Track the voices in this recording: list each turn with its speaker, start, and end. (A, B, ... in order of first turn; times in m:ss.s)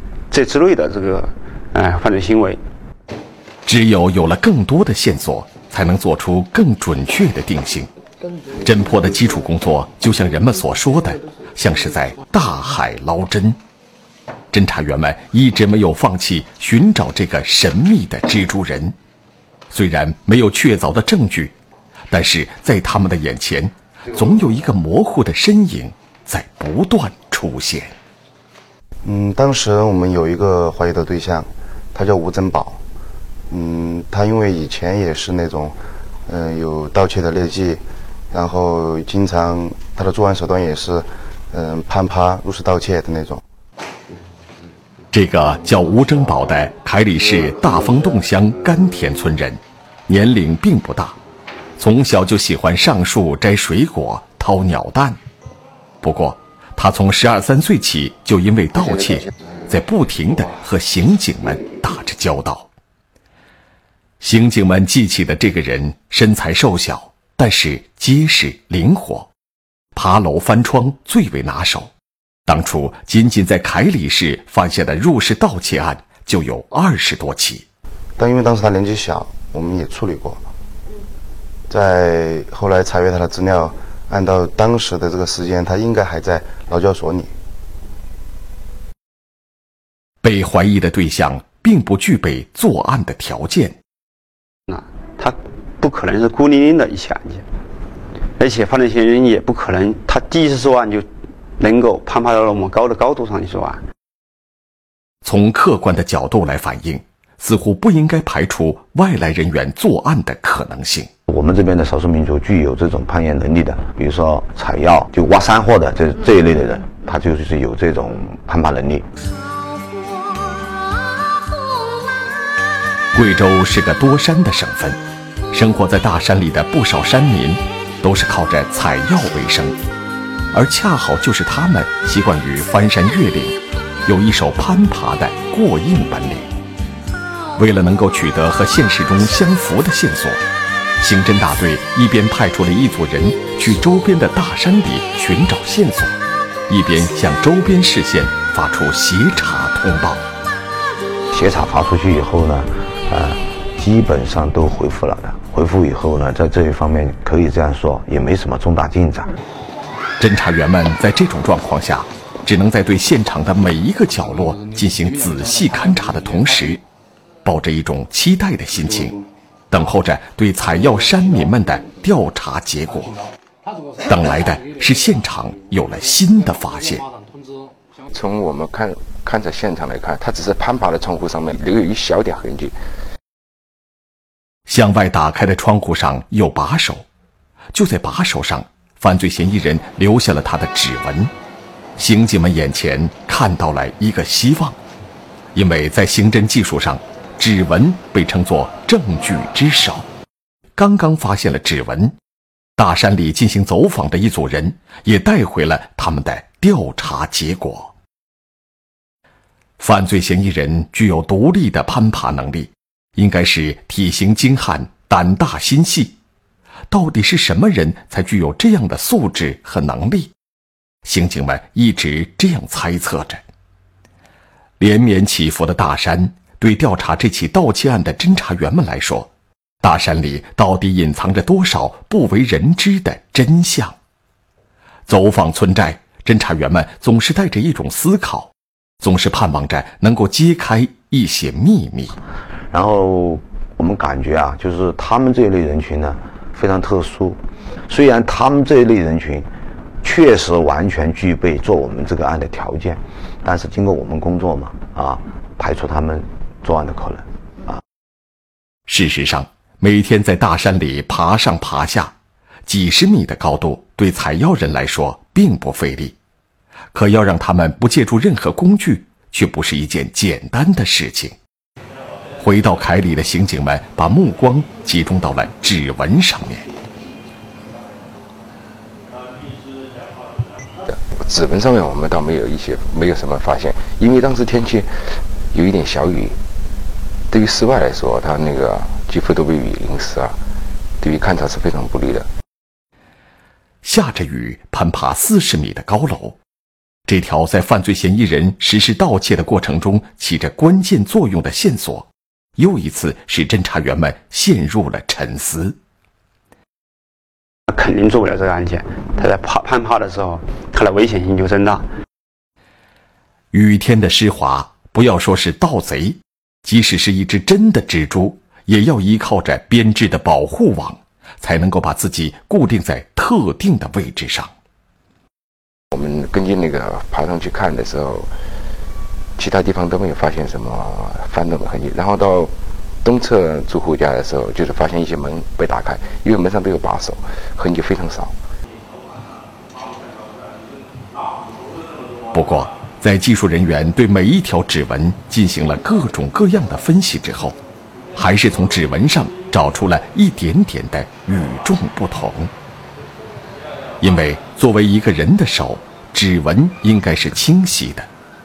0:00.3-0:02.6 A
0:03.6-0:07.9 B
0:08.5-0:13.6 B
0:14.5-0:19.0 B
0:19.7-0:21.5 B
0:22.1-0:27.9 B
0:29.0-0:32.8 C
0:33.5-0:35.8 C
0:36.3-0:43.4 C
0:45.1-0:51.2 B
0:51.8-0:55.2 B
0:56.0-1:02.7 B
1:04.2-1:09.3 B
1:10.0-1:11.9 B
1:12.5-1:17.6 B
1:18.2-1:20.4 C
1:21.7-1:27.3 C
1:30.2-1:33.8 B
1:34.7-1:37.4 A
1:38.4-1:41.1 A
1:41.6-1:43.8 A
1:45.2-1:51.1 B
1:51.3-1:59.1 D
2:03.1-2:05.0 B
2:05.5-2:09.8 B
2:10.5-2:16.5 B
2:17.6-2:20.4 B
2:21.0-2:26.2 B
2:26.7-2:30.2 B
2:31.3-2:39.3 D
2:40.2-2:46.8 B
2:47.4-2:53.2 B
2:54.0-2:57.0 B
2:58.1-3:02.7 E
3:04.7-3:07.0 B
3:07.7-3:11.3 B
3:12.0-3:14.8 B
3:15.5-3:20.0 B
3:20.8-3:22.1 B
3:22.8-3:27.9 B
3:29.8-3:36.2 B
3:36.9-3:40.3 B
3:41.0-3:43.4 B
3:44.8-3:49.3 B
3:49.8-3:54.0 B
3:55.1-4:02.2 B
4:02.7-4:09.5 D
4:10.0-4:17.8 D
4:18.9-4:22.1 B
4:22.7-4:26.2 B
4:26.9-4:31.4 B
4:32.4-4:36.7 B
4:40.9-4:44.9 E
4:45.5-4:46.4 E
4:47.3-4:50.4 E
4:51.0-4:52.3 E
4:53.8-4:56.4 B
4:57.1-5:05.8 B
5:07.7-5:11.9 A
5:13.5-5:24.5 B
5:25.9-5:28.3 E
5:29.4-5:32.5 E
5:33.0-5:38.3 E
5:42.3-5:47.6 B
5:48.2-5:52.5 B
5:54.0-5:58.1 B